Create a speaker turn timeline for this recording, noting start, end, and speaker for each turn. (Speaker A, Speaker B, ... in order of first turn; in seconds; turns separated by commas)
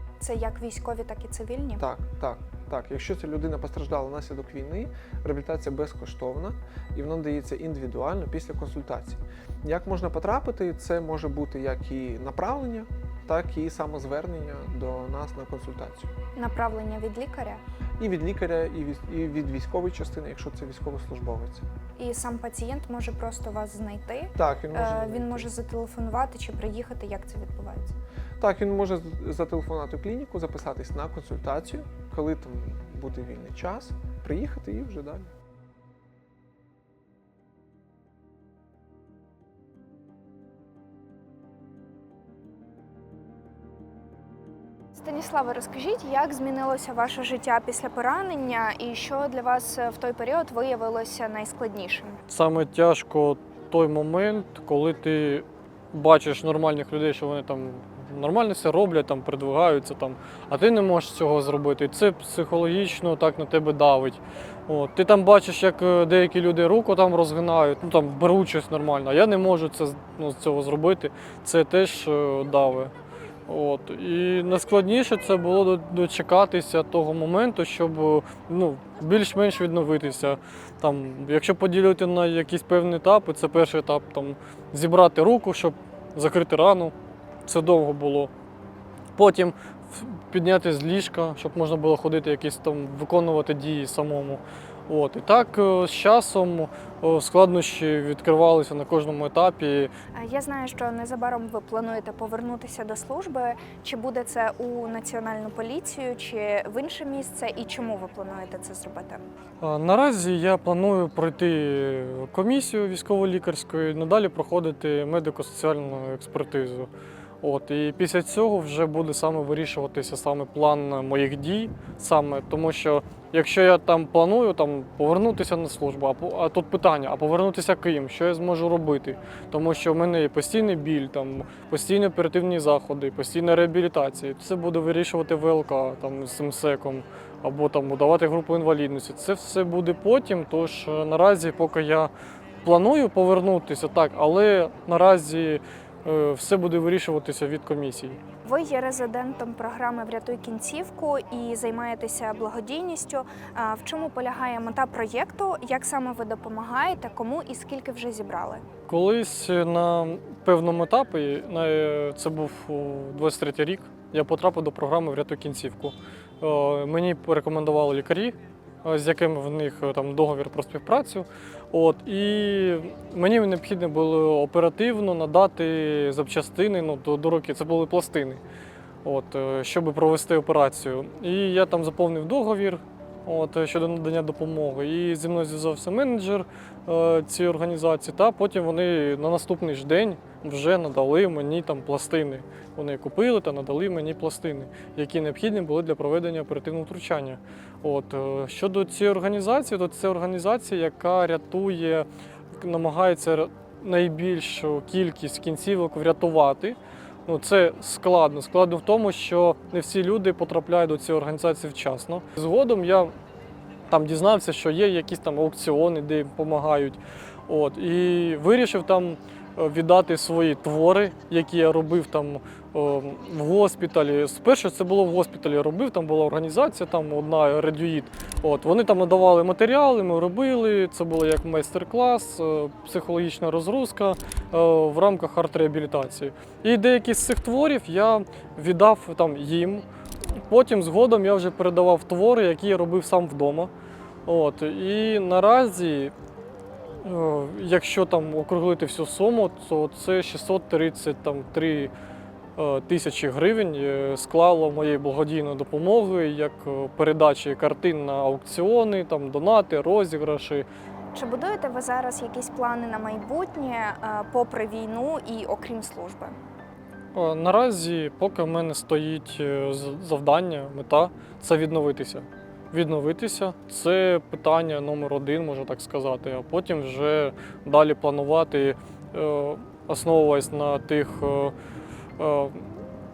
Speaker A: 0.2-1.8, Speaker B: 1.8-16.1, Speaker A: 16.4-17.6, Speaker B: 18.0-21.6, Speaker A: 22.0-27.9, Speaker B: 24.4-25.5, Speaker B: 28.4-35.3, Speaker A: 45.0-52.2, Speaker C: 52.3-72.9, Speaker C: 73.5-86.9, Speaker C: 87.5-88.3, Speaker C: 89.2-99.9, Speaker A: 100.1-109.2, Speaker C: 109.6-116.9, Speaker C: 117.4-142.1, Speaker C: 142.6-148.2, Speaker A: 148.4-158.6, Speaker C: 158.9-178.4, Speaker C: 179.0-213.1, Speaker C: 213.9-239.8, Speaker C: 240.4-243.7, Speaker C: 244.3-246.1, Speaker C: 247.0-251.9, Speaker C: 252.6-260.6, Speaker A: 261.1-266.4, Speaker C: 267.1-281.5, Speaker C: 282.2-282.7